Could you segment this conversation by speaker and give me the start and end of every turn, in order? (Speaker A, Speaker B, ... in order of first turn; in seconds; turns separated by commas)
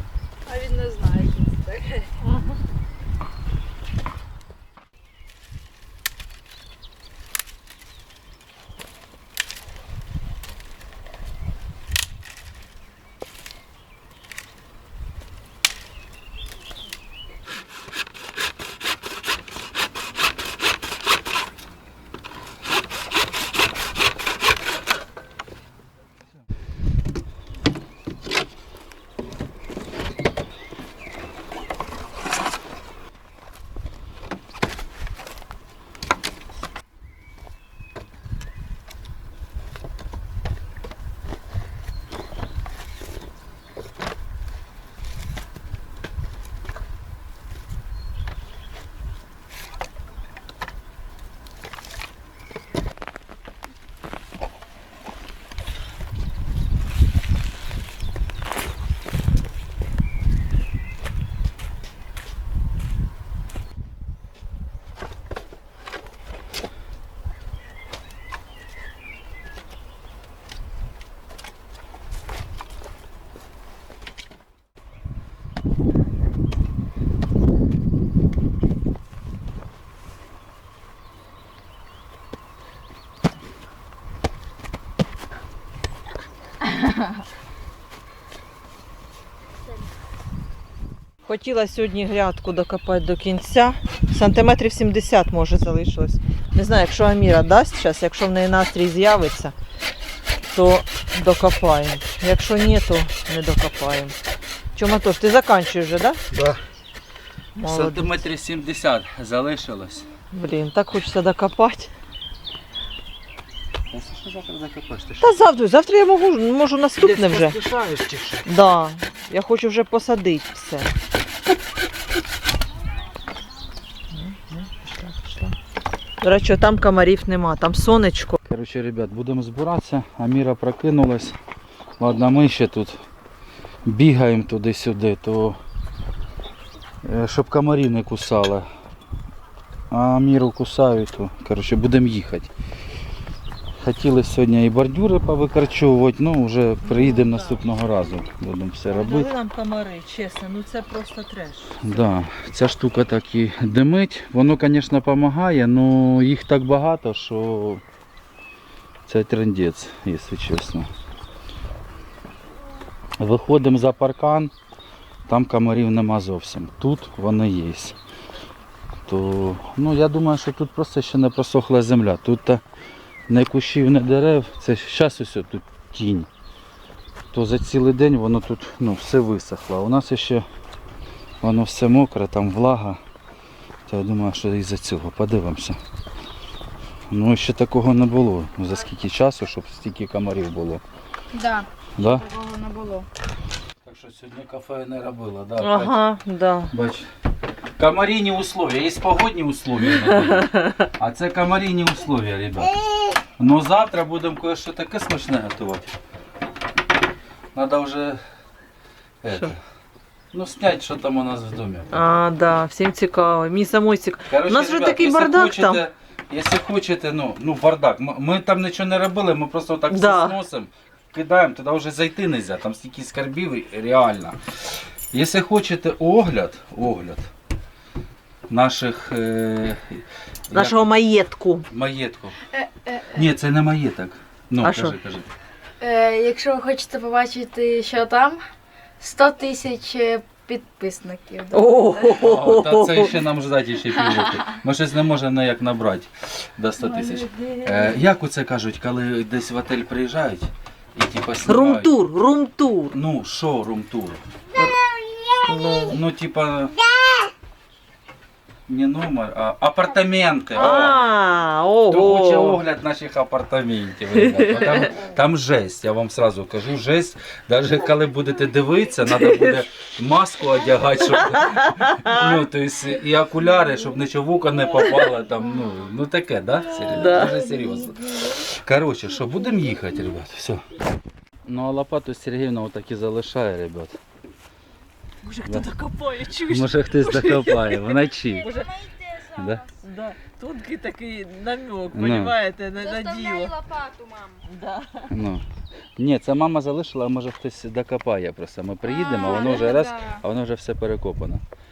Speaker A: 0.5-2.3, Speaker B: 91.2-99.5, Speaker B: 100.5-104.2, Speaker B: 104.8-106.2, Speaker C: 106.3-106.6, Speaker B: 107.5-108.2, Speaker C: 107.6-110.1, Speaker B: 110.3-111.9, Speaker C: 113.9-115.4, Speaker B: 115.2-117.6, Speaker C: 117.0-118.5, Speaker B: 118.5-120.9, Speaker B: 124.1-125.5, Speaker B: 126.2-128.4, Speaker C: 128.4-131.4, Speaker C: 132.0-133.0, Speaker C: 133.8-135.6, Speaker C: 137.0-138.7, Speaker C: 139.9-142.5, Speaker C: 143.8-149.3, Speaker B: 146.8-147.6, Speaker B: 148.9-151.9, Speaker C: 151.8-157.8, Speaker C: 159.1-160.9, Speaker C: 163.2-164.5, Speaker C: 165.3-167.9, Speaker C: 169.1-172.6, Speaker C: 173.3-176.3, Speaker C: 177.3-180.5, Speaker C: 181.4-183.0, Speaker C: 183.9-185.8, Speaker C: 187.1-190.8, Speaker A: 191.3-193.1, Speaker C: 192.0-192.3, Speaker C: 193.8-196.0, Speaker B: 195.6-196.7, Speaker C: 196.7-197.1, Speaker C: 197.8-202.8, Speaker B: 200.2-200.9, Speaker C: 203.4-205.9, Speaker C: 207.5-208.2, Speaker C: 209.2-209.6, Speaker C: 210.3-212.0, Speaker B: 211.9-215.8, Speaker C: 214.3-227.3, Speaker B: 219.9-220.4, Speaker C: 228.5-230.9, Speaker B: 230.5-231.7, Speaker C: 231.7-232.4, Speaker A: 232.5-233.1, Speaker C: 233.1-235.3, Speaker B: 234.6-234.9, Speaker A: 235.8-238.4, Speaker A: 239.0-242.1, Speaker B: 241.5-243.2, Speaker C: 242.1-251.9, Speaker B: 251.5-252.9, Speaker C: 252.9-254.2, Speaker B: 255.4-256.0, Speaker C: 255.9-256.7, Speaker C: 258.7-261.0, Speaker B: 260.5-262.6, Speaker C: 261.9-280.7, Speaker B: 264.2-264.9, Speaker B: 269.1-269.6, Speaker B: 271.4-272.2, Speaker B: 276.9-277.4, Speaker C: 281.4-284.0, Speaker B: 285.2-288.8, Speaker C: 286.4-288.5, Speaker A: 288.5-289.4, Speaker C: 289.3-289.6, Speaker B: 289.8-293.5, Speaker C: 291.9-292.4, Speaker A: 292.8-294.4, Speaker B: 294.4-295.1, Speaker C: 295.1-295.4, Speaker C: 296.0-301.4, Speaker A: 298.9-300.2